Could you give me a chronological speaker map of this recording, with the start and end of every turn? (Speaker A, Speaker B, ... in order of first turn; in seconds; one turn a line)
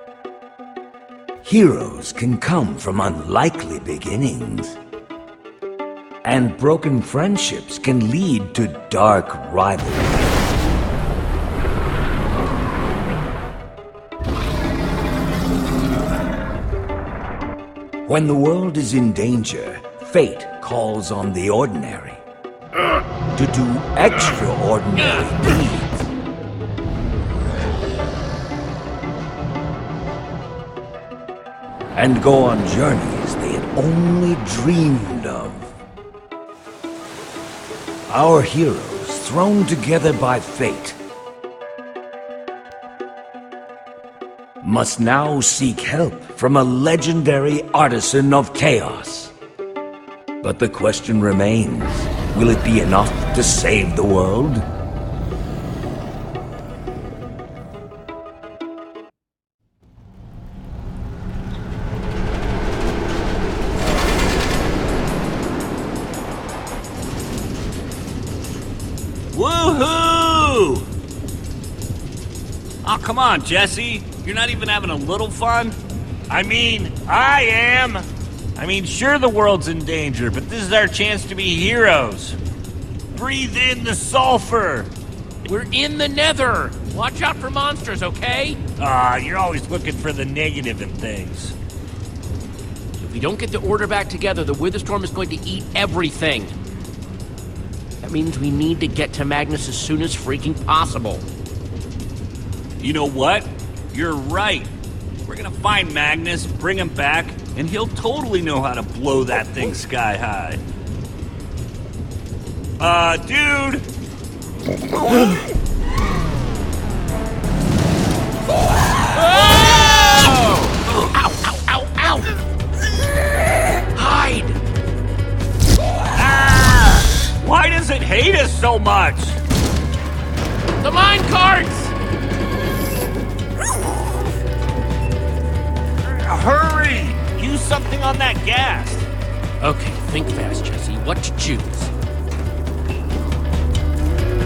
Speaker A: 1.4-4.8
Speaker A: 6.2-10.2
Speaker A: 18.1-22.2
Speaker A: 23.3-25.9
Speaker A: 31.9-35.7
Speaker A: 38.1-41.0
Speaker A: 44.6-49.3
Speaker A: 50.4-54.6
Speaker B: 69.3-70.9
Speaker B: 72.8-75.8
Speaker B: 76.3-82.4
Speaker B: 83.1-84.9
Speaker C: 85.5-88.6
Speaker B: 88.8-91.5
Speaker C: 93.0-96.6
Speaker C: 98.0-101.3
Speaker B: 102.8-104.7
Speaker B: 105.3-110.6
Speaker B: 112.8-113.9
Speaker C: 119.1-122.4
Speaker C: 123.9-124.6
Speaker B: 126.1-129.4
Speaker C: 130.8-131.9
Speaker B: 136.0-139.1
Speaker C: 139.6-141.9